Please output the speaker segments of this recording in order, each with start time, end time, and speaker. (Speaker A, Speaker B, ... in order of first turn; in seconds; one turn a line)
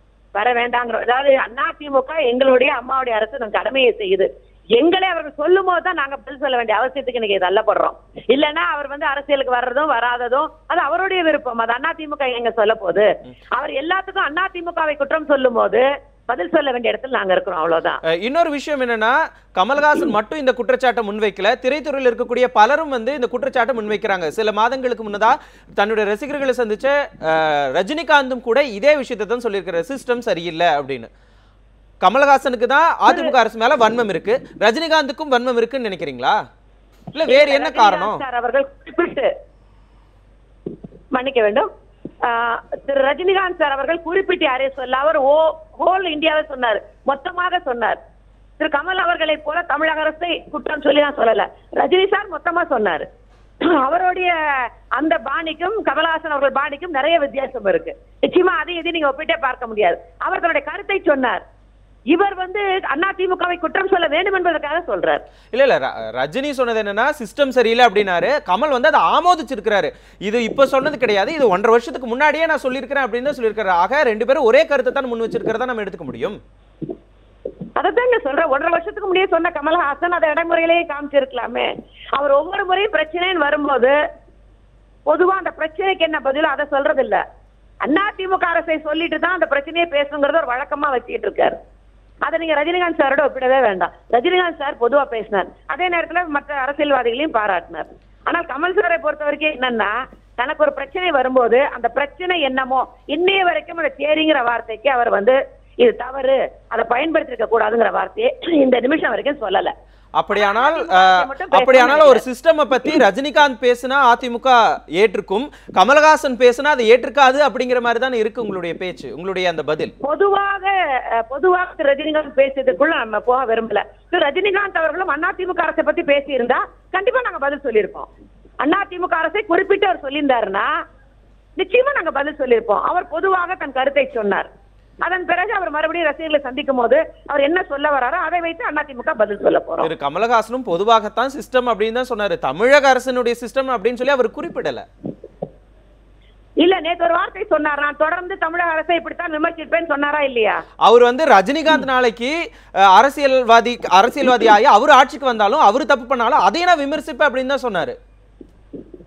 Speaker A: 0.3-18.0
Speaker B: 18.1-31.1
Speaker B: 32.0-36.4
Speaker A: 33.1-33.3
Speaker B: 37.1-38.2
Speaker A: 37.2-39.3
Speaker A: 41.1-41.7
Speaker A: 42.2-48.0
Speaker A: 48.6-53.1
Speaker A: 53.6-61.4
Speaker A: 62.1-65.2
Speaker B: 65.5-76.4
Speaker A: 77.8-84.0
Speaker A: 85.1-87.2
Speaker A: 87.8-91.6
Speaker A: 92.2-109.7
Speaker B: 110.2-119.9
Speaker A: 110.3-112.2
Speaker A: 120.0-128.1
Speaker A: 128.6-130.7
Speaker A: 131.6-134.5
Speaker A: 135.0-139.9
Speaker B: 139.8-144.9
Speaker A: 146.6-150.6
Speaker B: 150.8-158.0